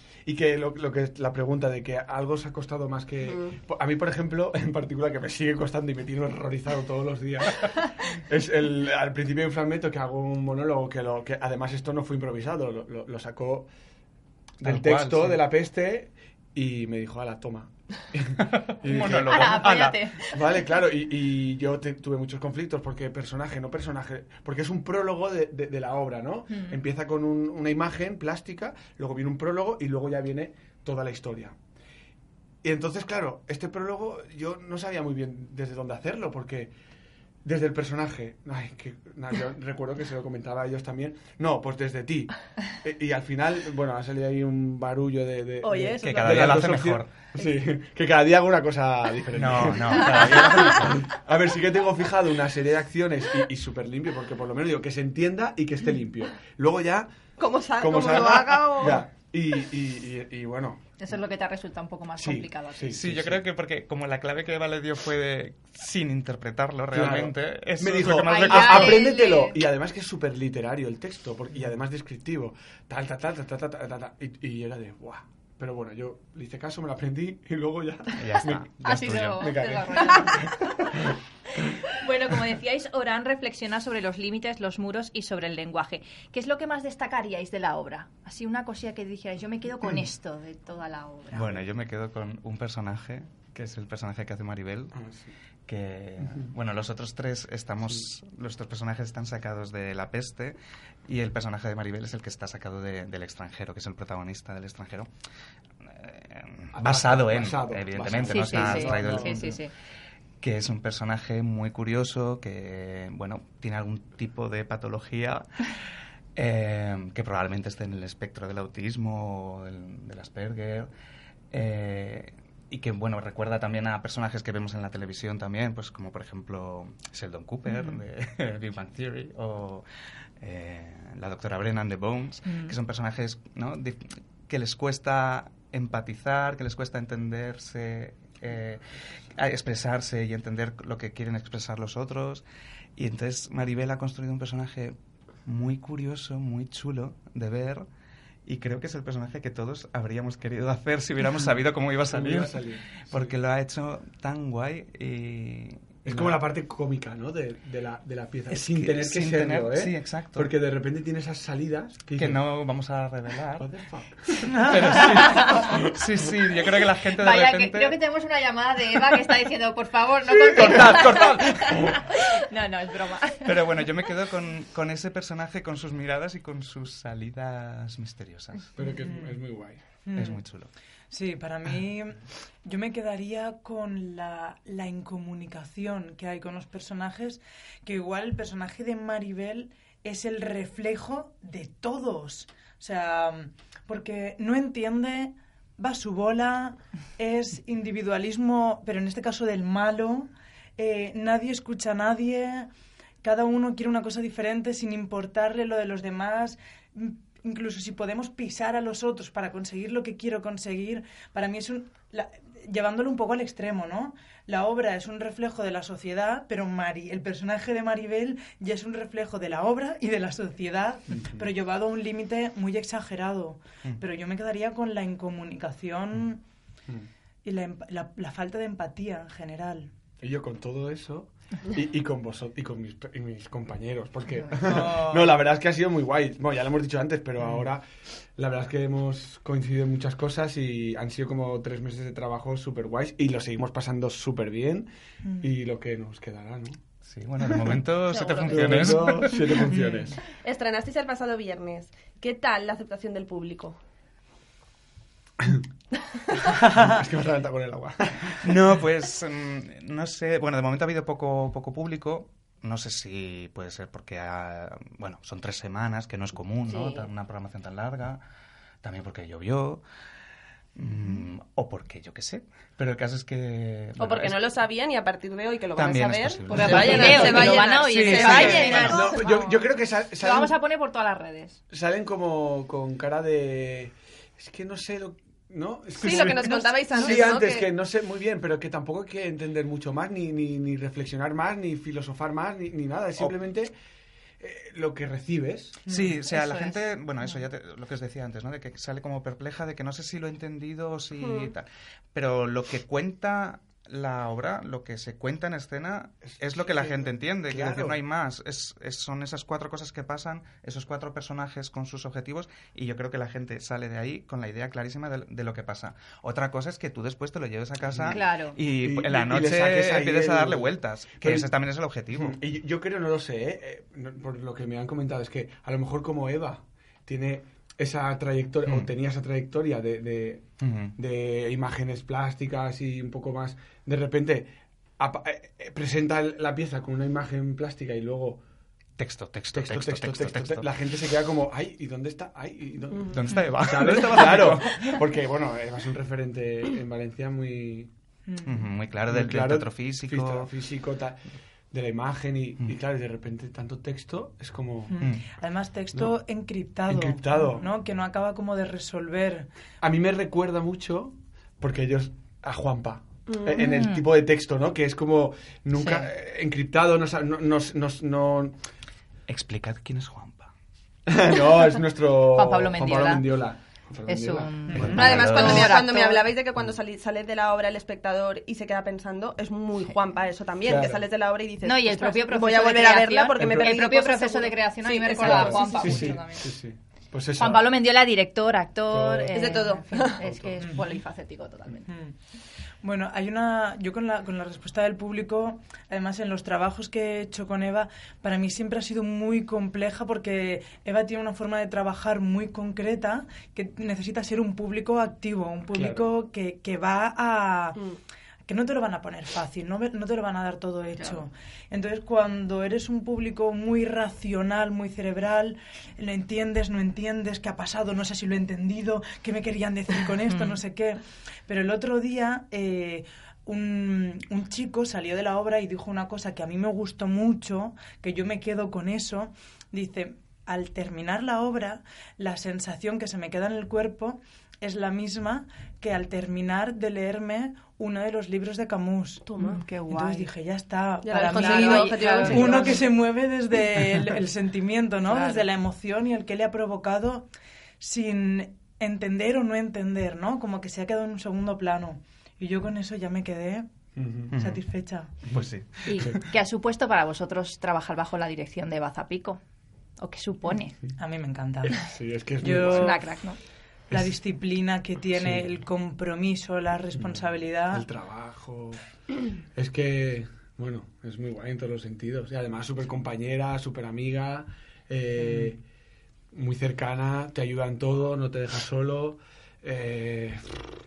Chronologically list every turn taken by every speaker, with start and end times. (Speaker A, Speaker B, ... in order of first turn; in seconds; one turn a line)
Speaker A: 0.2-13.7
Speaker B: 3.2-3.5
Speaker A: 14.6-31.6
Speaker C: 14.6-15.4
Speaker C: 18.4-20.1
Speaker D: 19.3-20.3
Speaker D: 26.5-26.8
Speaker A: 32.6-36.7
Speaker A: 37.4-57.1
Speaker B: 45.6-46.7
Speaker C: 46.0-47.1
Speaker C: 49.3-51.0
Speaker B: 57.4-59.0
Speaker A: 57.8-60.8
Speaker D: 61.0-62.9
Speaker A: 62.2-63.4
Speaker C: 62.9-69.1
Speaker A: 66.9-81.2
Speaker D: 68.2-69.6
Speaker C: 78.2-79.8
Speaker D: 78.8-80.6
Speaker D: 81.9-91.6
Speaker C: 91.3-94.9
Speaker A: 94.9-95.3
Speaker C: 95.7-105.1
Speaker C: 105.8-109.6
Speaker A: 106.7-109.5
Speaker D: 108.2-109.7
Speaker C: 110.4-120.9
Speaker C: 121.5-129.9
Speaker C: 130.4-142.4
Speaker C: 142.9-147.9
Speaker C: 148.4-156.4
Speaker A: 152.1-153.2
Speaker A: 156.0-162.4
Speaker C: 158.5-160.5
Speaker C: 162.2-163.7
Speaker A: 163.6-166.0
Speaker E: 164.5-165.0
Speaker C: 164.7-168.0
Speaker D: 167.2-173.5
Speaker C: 170.6-171.9
Speaker A: 170.6-172.0
Speaker C: 173.4-178.7
Speaker A: 178.7-179.8
Speaker E: 179.0-179.4
Speaker E: 180.0-180.4
Speaker C: 180.1-180.7
Speaker E: 181.1-202.7
Speaker E: 203.2-226.4
Speaker A: 221.2-221.4
Speaker E: 227.4-229.9
Speaker A: 230.2-244.9
Speaker E: 234.6-235.3
Speaker A: 245.4-246.8
Speaker C: 247.0-249.6
Speaker A: 247.4-250.2
Speaker D: 248.1-248.6
Speaker E: 249.7-250.1
Speaker B: 250.3-253.8
Speaker A: 256.6-258.5
Speaker C: 258.4-268.2
Speaker D: 266.7-267.1
Speaker C: 268.8-269.8
Speaker C: 270.7-274.4
Speaker B: 274.0-279.2
Speaker C: 275.7-278.8
Speaker D: 276.5-279.6
Speaker A: 277.8-280.6
Speaker D: 280.2-281.6
Speaker A: 281.7-293.7
Speaker B: 286.0-287.7
Speaker E: 286.1-287.1
Speaker A: 294.4-295.9
Speaker E: 295.9-296.7
Speaker C: 295.9-322.4
Speaker B: 301.2-301.5
Speaker A: 306.2-308.0
Speaker A: 317.9-318.2
Speaker D: 318.1-318.6
Speaker A: 318.8-321.5
Speaker A: 322.1-338.4
Speaker C: 328.6-328.9
Speaker C: 330.6-330.9
Speaker C: 339.0-340.7
Speaker A: 339.5-347.9
Speaker C: 343.1-345.0
Speaker E: 348.3-348.6
Speaker C: 348.4-350.5
Speaker A: 349.1-354.9
Speaker E: 354.9-359.5
Speaker A: 356.9-357.7
Speaker A: 359.8-368.6
Speaker D: 363.5-364.0
Speaker D: 365.8-366.1
Speaker C: 369.3-370.5
Speaker A: 371.1-375.6
Speaker D: 372.3-373.3
Speaker D: 374.1-376.2
Speaker E: 374.7-375.0
Speaker C: 374.7-375.8
Speaker B: 374.9-386.2
Speaker A: 380.6-381.1
Speaker D: 381.6-386.5
Speaker A: 383.4-383.8
Speaker A: 385.1-387.8
Speaker D: 387.4-391.9
Speaker A: 388.9-389.3
Speaker B: 389.3-390.2
Speaker A: 390.2-390.6
Speaker E: 391.9-392.1
Speaker E: 392.8-407.8
Speaker A: 405.7-406.1
Speaker E: 408.4-447.2
Speaker B: 439.2-439.6
Speaker D: 439.4-440.3
Speaker B: 441.0-442.9
Speaker D: 441.1-442.8
Speaker D: 445.0-445.4
Speaker E: 447.8-453.7
Speaker A: 453.9-454.4
Speaker E: 454.4-455.1
Speaker C: 455.3-456.1
Speaker D: 455.8-459.4
Speaker D: 460.0-460.8
Speaker E: 461.0-463.0
Speaker A: 461.8-463.0
Speaker D: 462.6-463.4
Speaker E: 463.9-467.9
Speaker A: 465.1-465.4
Speaker A: 467.0-468.8
Speaker A: 469.5-475.6
Speaker E: 475.2-475.5
Speaker A: 476.3-480.6